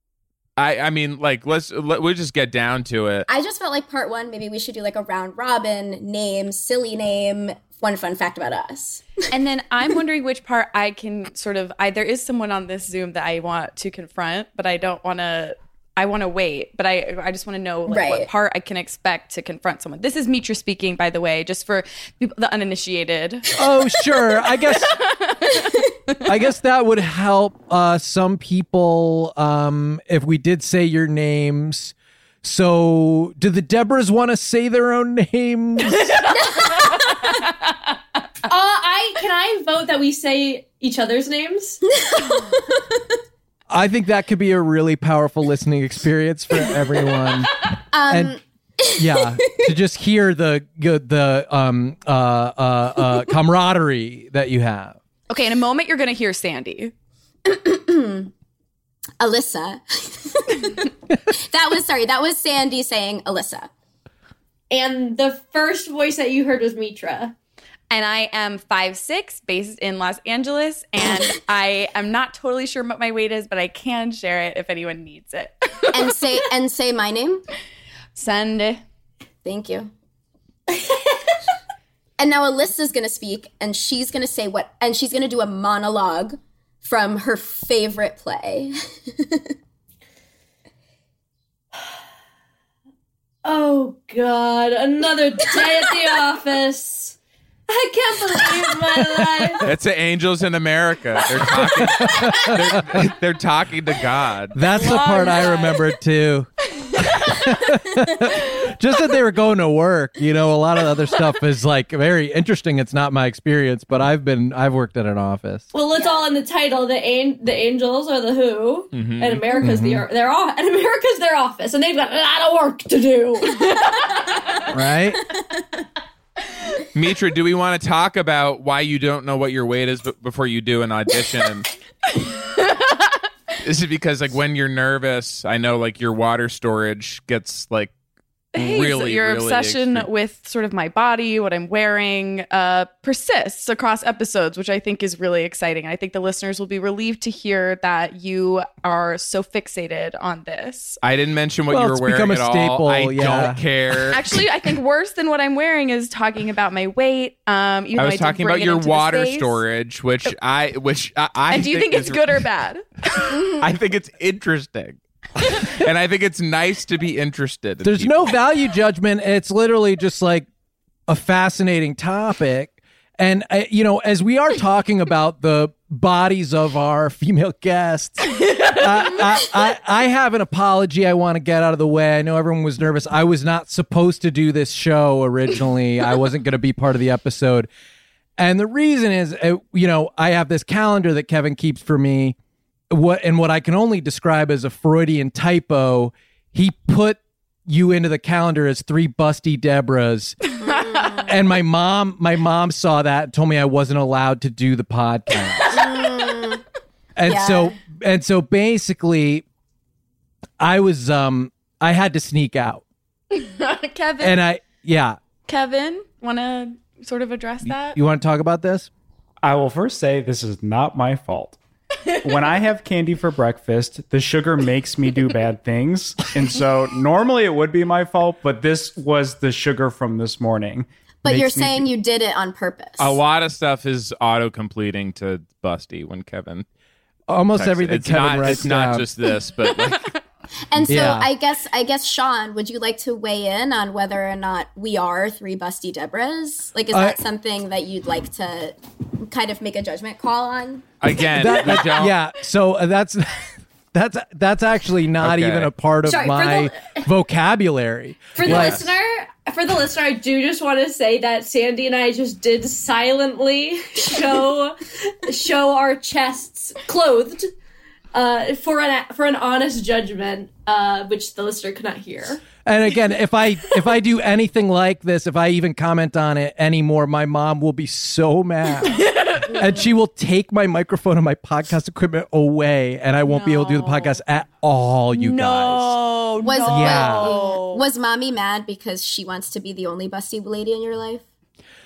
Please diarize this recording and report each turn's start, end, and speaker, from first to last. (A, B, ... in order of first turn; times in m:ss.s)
0:00.6-0:03.3 A
0:03.3-0:09.1 B
0:09.3-0:23.6 C
0:17.9-0:18.3 B
0:23.6-0:24.9 D
0:24.6-0:25.6 C
0:26.2-0:36.2 D
0:38.5-0:41.8 E
0:42.1-0:42.8 B
0:43.7-0:47.5 D
0:47.9-0:49.6 B
0:48.1-0:48.4 D
0:48.9-0:55.0 D
0:55.3-0:56.9 C
0:57.4-0:58.3 B
0:59.2-1:03.7 B
1:04.7-1:07.4 E
1:07.9-1:16.1 C
1:15.9-1:17.4 B
1:18.2-1:18.8 C
1:19.4-1:19.9 B
1:22.2-1:29.5 B
1:33.4-1:37.2 E
1:37.7-1:39.7 E
1:39.0-1:39.6 D
1:39.6-1:44.6 A
1:41.4-1:43.1 D
1:44.5-1:55.7 D
1:44.7-1:45.9 C
1:55.7-2:03.9 E
1:58.9-1:59.6 A
1:59.6-2:00.0 D
2:04.7-2:05.2 D
2:06.9-2:11.7 A
2:12.4-2:13.1 C
2:13.6-2:17.9 A
2:18.5-2:31.0 C
2:18.6-2:20.1 A
2:31.0-2:34.2 A
2:31.7-2:33.6 D
2:34.1-2:39.6 C
2:38.0-2:42.4 A
2:41.5-2:42.8 C
2:43.3-2:43.6 B
2:43.6-2:45.0 A
2:45.6-2:48.4 A
2:47.8-2:50.5 D
2:51.1-3:07.7 D
3:08.4-3:12.4 D
3:12.9-3:20.5 D
3:20.6-3:21.3 B
3:21.3-3:25.8 D
3:25.7-3:26.6 B
3:27.2-3:29.4 D
3:27.3-3:27.8 B
3:30.6-3:32.8 D
3:33.3-3:34.4 C
3:34.2-3:35.2 D
3:35.5-3:38.0 C
3:37.6-3:38.9 D
3:39.4-3:41.6 F
3:42.2-3:51.8 F
3:51.2-3:53.2 B
3:53.0-3:56.7 A
3:57.3-3:59.1 D
3:57.5-4:00.1 A
4:00.7-4:10.9 B
4:00.8-4:01.3 D
4:06.9-4:07.2 D
4:11.0-4:12.2 A
4:11.2-4:18.9 D
4:15.2-4:15.7 A
4:16.1-4:17.1 E
4:18.4-4:27.5 E
4:18.4-4:18.8 A
4:28.1-4:32.4 E
4:32.6-4:46.0 D
4:39.1-4:39.4 C
4:43.3-4:44.2 C
4:45.1-4:47.8 C
4:46.4-4:51.2 B
4:46.6-4:47.4 D